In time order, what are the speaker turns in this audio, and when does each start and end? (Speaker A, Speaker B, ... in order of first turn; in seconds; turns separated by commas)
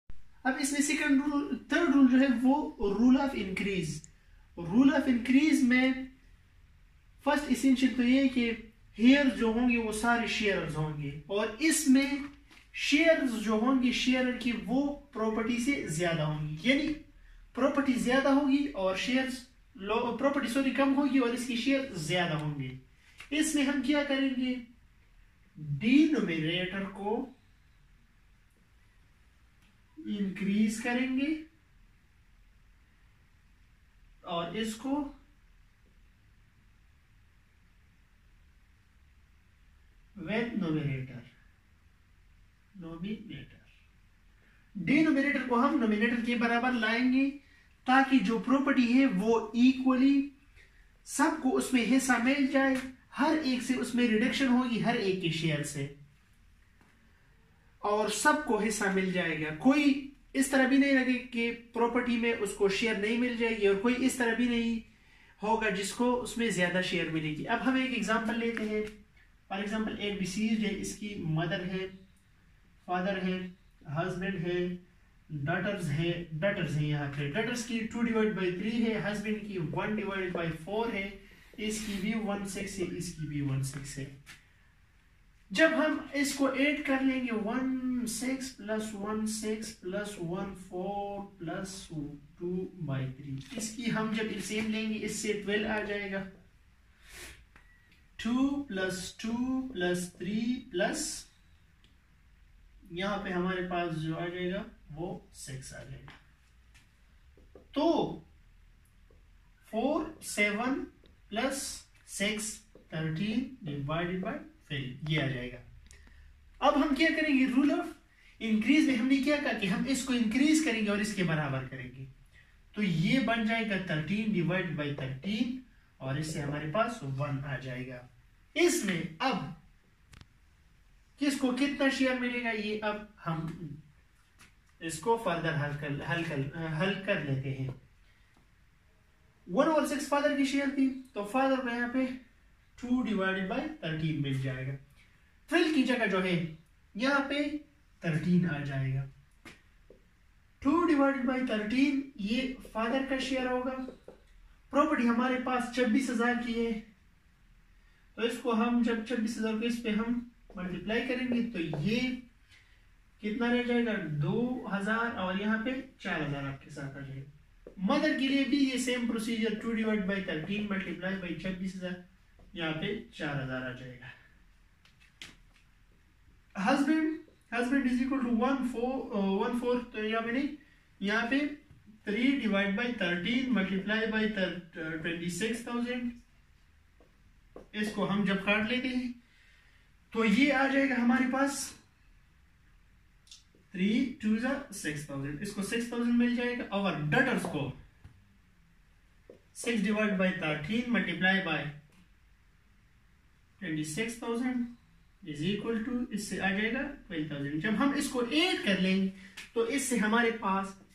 Speaker A: 0.4-4.0, Speaker A: 4.6-6.1, Speaker A: 7.2-17.0, Speaker A: 17.5-22.8, Speaker A: 23.3-24.6, Speaker A: 25.6-27.3, Speaker A: 30.0-31.4, Speaker A: 34.2-35.1, Speaker A: 40.1-41.3, Speaker A: 42.7-43.7, Speaker A: 44.8-50.3, Speaker A: 51.0-55.9, Speaker A: 57.8-64.9, Speaker A: 65.4-68.9, Speaker A: 69.5-71.9, Speaker A: 72.8-84.1, Speaker A: 85.5-96.3, Speaker A: 98.2-101.3, Speaker A: 102.9-106.2, Speaker A: 107.7-108.2, Speaker A: 109.6-115.7, Speaker A: 116.6-122.1, Speaker A: 122.7-129.6, Speaker A: 131.2-133.8, Speaker A: 134.8-137.8, Speaker A: 139.4-142.1, Speaker A: 142.8-144.8, Speaker A: 145.5-149.1, Speaker A: 150.6-153.8, Speaker A: 154.7-156.8, Speaker A: 158.1-162.2, Speaker A: 163.2-172.0, Speaker A: 172.5-174.1, Speaker A: 176.6-186.1, Speaker A: 187.7-189.1, Speaker A: 190.1-191.8, Speaker A: 193.7-197.8, Speaker A: 199.5-201.7, Speaker A: 203.6-204.7, Speaker A: 205.2-210.8